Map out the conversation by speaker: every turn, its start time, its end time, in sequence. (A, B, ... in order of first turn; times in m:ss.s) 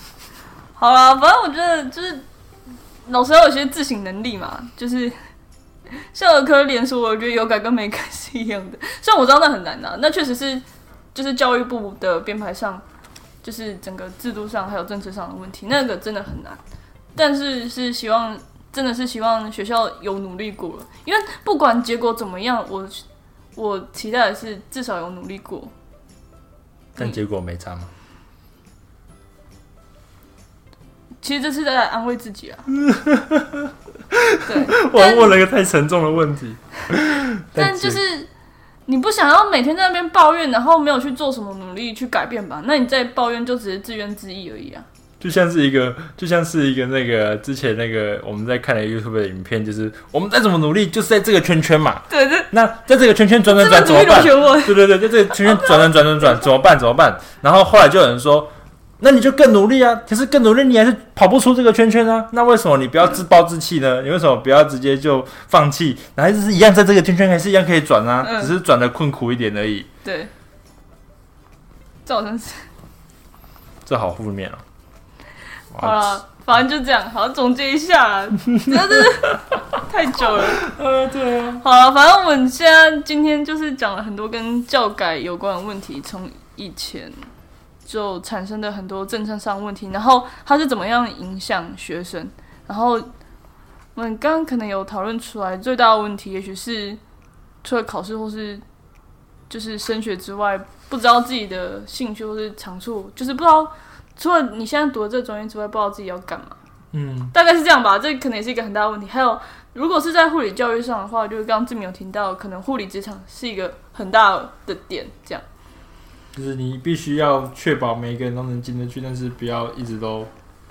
0:00.8-0:02.3 A
0:03.1-0:05.1 A
0:06.0-0:12.8 A
0:13.4-0:16.6 A
0:17.2-0:23.0 A
0:23.6-0:25.7 A
0:27.0-0:27.9 B
0:31.2-0:32.7 A
0:32.8-0:38.0 B
0:34.4-0:35.4 A
0:37.6-0:38.3 A
0:38.9-0:44.9 A
0:45.2-1:09.9 B
0:52.1-0:52.5 A
0:53.5-0:56.4 A
1:08.2-1:08.5 A
1:10.0-1:10.3 A
1:12.1-1:12.7 A
1:13.8-1:14.6 B
1:15.7-1:16.2 B
1:15.8-1:20.7 A
1:20.3-1:21.6 B
1:21.6-1:27.2 A
1:27.9-1:33.1 A
1:34.0-1:37.0 A
1:37.6-1:38.6 A
1:39.5-1:46.6 A
1:46.9-1:47.3 B
1:47.3-1:55.4 A
1:56.4-2:00.3 B